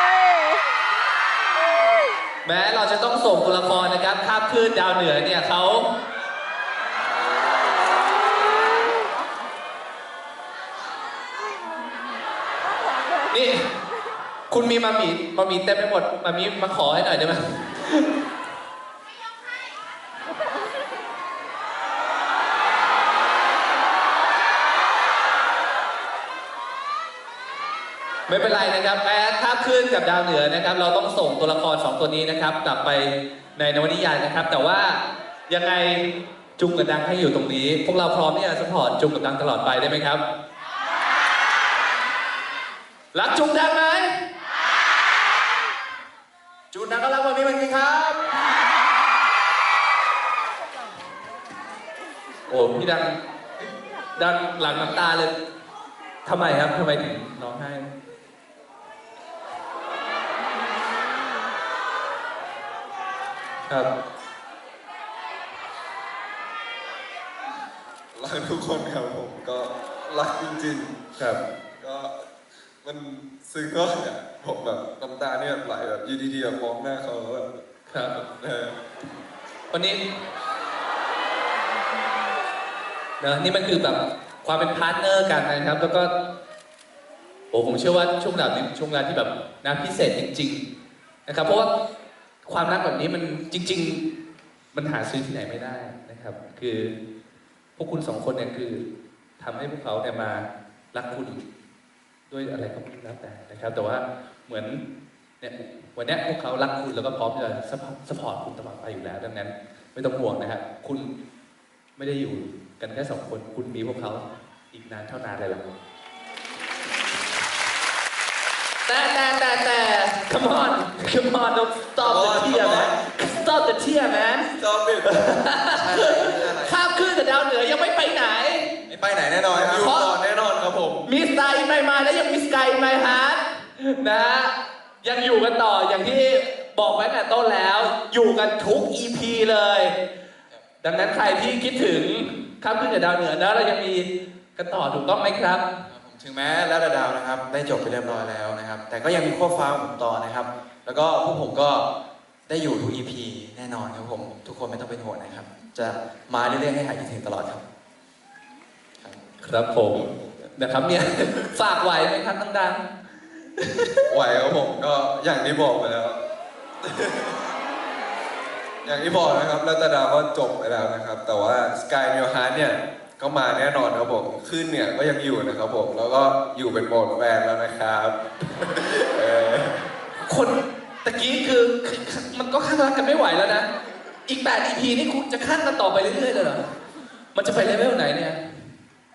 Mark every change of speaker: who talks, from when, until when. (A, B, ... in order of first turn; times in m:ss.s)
0:02.4-0:05.9 A
0:13.3-0:13.7 A
0:14.5-0:18.1 A
0:28.3-0:40.2 A
0:43.1-0:44.1 A
0:46.7-0:48.2 B
0:52.5-0:53.2 A
0:54.1-0:55.3 A
0:56.2-0:57.9 A
1:08.1-1:11.0 C
1:11.8-1:12.2 C
1:12.8-1:18.8 C
1:17.9-1:18.1 A
1:19.7-1:20.0 A
1:23.2-1:26.1 A
1:27.5-1:30.6 A
1:31.2-1:31.7 A
1:32.4-1:34.0 A
1:34.7-1:36.9 A
1:37.8-1:38.8 A
1:39.4-1:41.4 A
1:42.3-1:44.8 A
1:45.4-1:51.1 A
1:52.0-1:55.6 A
1:58.8-2:04.5 A
2:02.0-2:02.9 C
2:04.5-2:05.4 C
2:05.0-2:08.7 A
2:05.7-2:06.8 B
2:08.9-2:09.9 B
2:09.5-2:11.1 C
2:09.8-2:10.1 A
2:11.0-2:19.9 A
2:20.8-2:25.7 A
2:25.9-2:31.9 B
2:32.5-2:37.6 B
2:39.4-2:42.8 A
2:39.9-2:40.4 C
2:44.1-2:46.2 C
2:46.8-2:47.4 C
2:48.8-2:59.8 C
3:00.2-3:03.7 A
3:04.3-3:06.6 A
3:07.3-3:08.4 A